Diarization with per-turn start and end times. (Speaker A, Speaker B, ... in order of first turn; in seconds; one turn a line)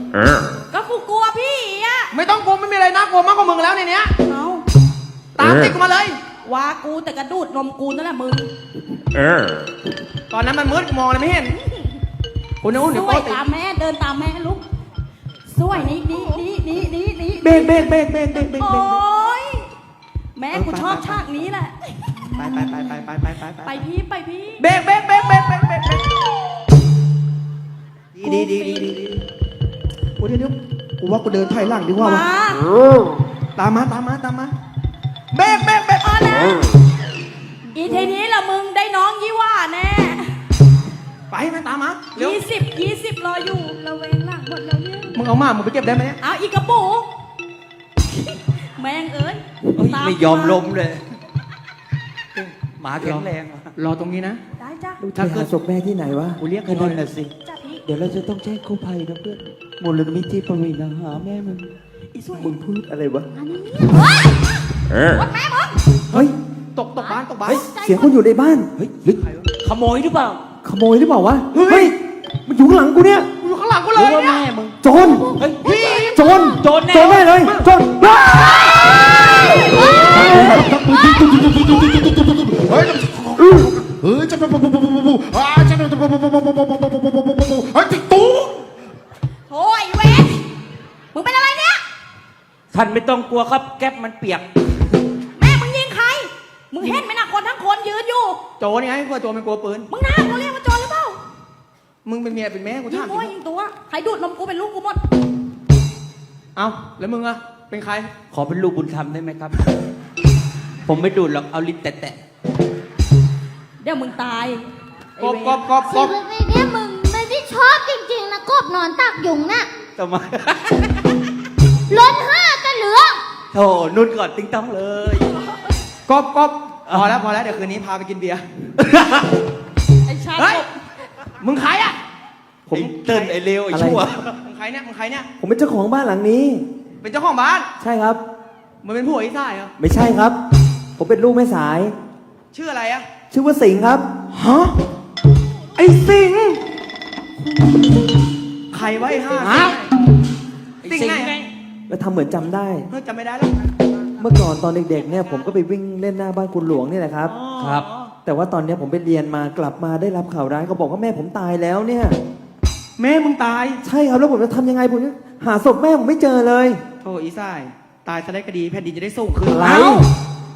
Speaker A: 0.7-2.1
Speaker B: 2.1-4.1
Speaker A: 4.3-4.6
Speaker B: 5.4-6.2
Speaker A: 6.4-8.5
Speaker B: 10.3-11.6
Speaker B: 12.6-13.4
Speaker A: 12.7-14.6
Speaker A: 15.5-17.9
Speaker B: 17.4-19.0
Speaker A: 18.6-19.7
Speaker A: 20.4-21.8
Speaker B: 20.5-21.2
Speaker B: 22.3-23.7
Speaker A: 23.6-24.6
Speaker B: 24.6-26.1
Speaker B: 28.1-29.2
Speaker A: 28.2-29.0
Speaker B: 30.2-32.3
Speaker A: 32.0-32.6
Speaker B: 33.6-34.5
Speaker B: 35.3-36.5
Speaker A: 36.0-36.5
Speaker A: 37.7-40.4
Speaker B: 41.3-42.4
Speaker A: 42.1-45.2
Speaker B: 45.1-46.2
Speaker A: 46.2-47.1
Speaker A: 48.1-50.6
Speaker C: 49.7-51.0
Speaker B: 52.3-54.4
Speaker C: 52.8-53.7
Speaker A: 54.6-55.0
Speaker D: 55.0-56.4
Speaker B: 55.1-55.5
Speaker C: 56.4-57.3
Speaker B: 56.5-57.0
Speaker A: 57.4-57.8
Speaker C: 57.9-61.7
Speaker D: 62.3-63.3
Speaker E: 63.4-64.3
Speaker A: 63.8-64.2
Speaker A: 65.1-65.7
Speaker D: 66.1-66.3
Speaker B: 66.1-67.7
Speaker E: 67.0-68.0
Speaker D: 67.8-68.7
Speaker C: 68.8-70.4
Speaker B: 69.1-69.5
Speaker D: 70.6-73.3
Speaker B: 71.5-71.9
Speaker B: 73.4-74.5
Speaker C: 73.9-74.8
Speaker D: 74.8-75.4
Speaker E: 74.9-76.5
Speaker C: 75.4-75.7
Speaker B: 75.6-76.2
Speaker D: 76.1-78.5
Speaker C: 76.3-77.4
Speaker B: 77.3-77.7
Speaker E: 78.6-81.4
Speaker F: 79.9-88.7
Speaker A: 89.5-90.4
Speaker A: 91.1-91.8
Speaker C: 92.7-94.5
Speaker A: 95.4-98.4
Speaker B: 98.6-99.9
Speaker A: 99.9-101.2
Speaker B: 102.0-103.3
Speaker A: 102.9-105.0
Speaker B: 106.5-108.1
Speaker C: 108.3-109.6
Speaker C: 110.8-112.2
Speaker A: 113.8-114.7
Speaker A: 115.2-115.6
Speaker B: 115.2-116.1
Speaker E: 115.8-119.7
Speaker C: 120.0-121.0
Speaker E: 121.9-123.2
Speaker C: 123.5-125.3
Speaker B: 126.1-128.4
Speaker C: 128.8-129.3
Speaker A: 130.1-130.7
Speaker B: 130.4-130.6
Speaker B: 131.4-132.0
Speaker C: 132.7-134.3
Speaker B: 132.7-133.3
Speaker D: 133.7-134.1
Speaker B: 134.4-135.3
Speaker D: 135.4-136.7
Speaker B: 137.0-137.7
Speaker D: 137.8-138.2
Speaker B: 138.8-139.7
Speaker D: 139.8-140.4
Speaker D: 141.0-141.9
Speaker B: 142.5-143.1
Speaker D: 143.3-144.1
Speaker B: 144.3-144.8
Speaker B: 145.8-146.6
Speaker B: 148.7-149.9
Speaker C: 149.3-149.8
Speaker C: 150.8-151.4
Speaker B: 150.8-151.4
Speaker D: 151.9-152.9
Speaker B: 152.9-153.6
Speaker D: 154.2-157.3
Speaker B: 157.2-158.1
Speaker C: 157.6-157.9
Speaker D: 158.2-162.2
Speaker B: 163.0-163.8
Speaker D: 163.8-166.8
Speaker B: 167.0-170.1
Speaker D: 169.4-170.1